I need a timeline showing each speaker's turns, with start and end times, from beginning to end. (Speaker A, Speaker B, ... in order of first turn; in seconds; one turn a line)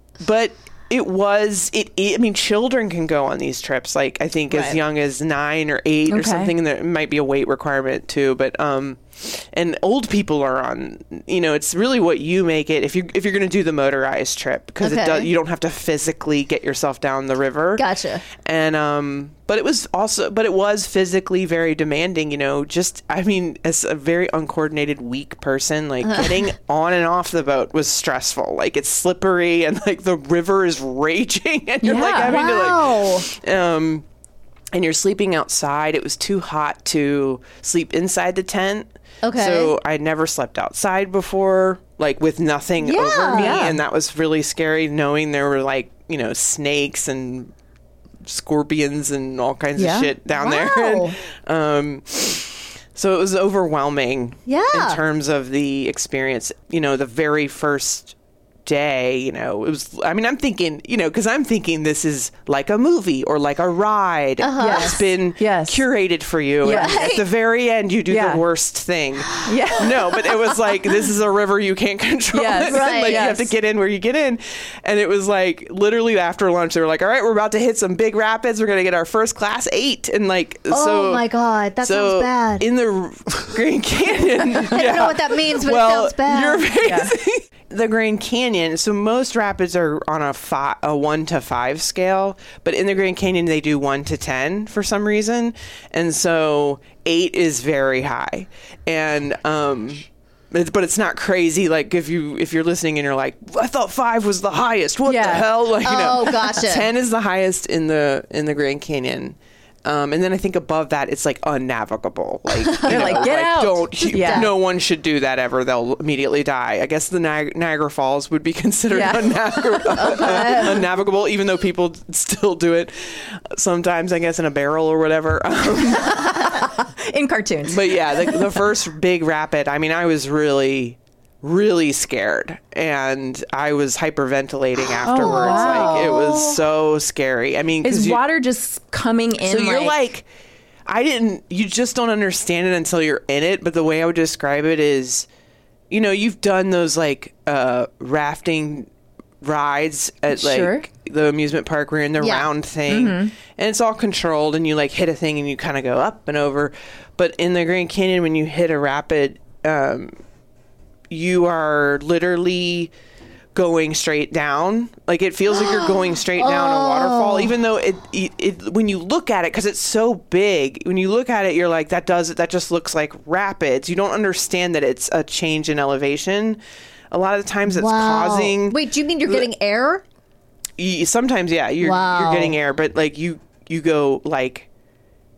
Speaker A: 0.2-34.0
Speaker B: 4.5-4.8
Speaker C: 6.1-6.5
Speaker B: 14.8-15.3
Speaker B: 17.8-18.2
Speaker C: 31.8-32.5
Speaker B: 32.2-33.2
Speaker A: 34.7-47.5
Speaker B: 39.2-39.7
Speaker B: 42.8-43.8
Speaker C: 43.3-43.8
Speaker A: 48.2-81.2
Speaker C: 49.8-50.1
Speaker B: 50.3-51.1
Speaker B: 54.5-55.0
Speaker B: 64.4-65.1
Speaker C: 64.6-65.8
Speaker C: 66.6-67.0
Speaker B: 66.6-67.2
Speaker C: 68.1-68.4
Speaker C: 69.4-70.5
Speaker C: 72.3-73.5
Speaker B: 72.6-73.3
Speaker B: 80.7-82.7
Speaker A: 81.8-126.4
Speaker B: 84.6-86.7
Speaker C: 86.8-87.1
Speaker C: 105.1-105.5
Speaker B: 105.8-106.9
Speaker B: 112.8-113.3
Speaker C: 112.8-114.5
Speaker B: 114.0-114.5
Speaker C: 118.9-120.7
Speaker B: 120.0-120.8
Speaker C: 126.0-128.6
Speaker A: 127.7-138.2
Speaker B: 135.0-136.6
Speaker C: 135.0-136.4
Speaker C: 137.8-139.9
Speaker A: 139.4-140.3
Speaker A: 140.9-145.2
Speaker A: 145.9-148.9
Speaker A: 149.4-160.1
Speaker C: 150.3-150.9
Speaker B: 152.2-152.5
Speaker C: 152.9-153.3
Speaker A: 161.1-162.9
Speaker A: 163.5-176.6
Speaker B: 165.6-167.5
Speaker A: 177.1-179.5
Speaker B: 177.7-180.0
Speaker A: 180.8-184.7
Speaker B: 181.8-182.6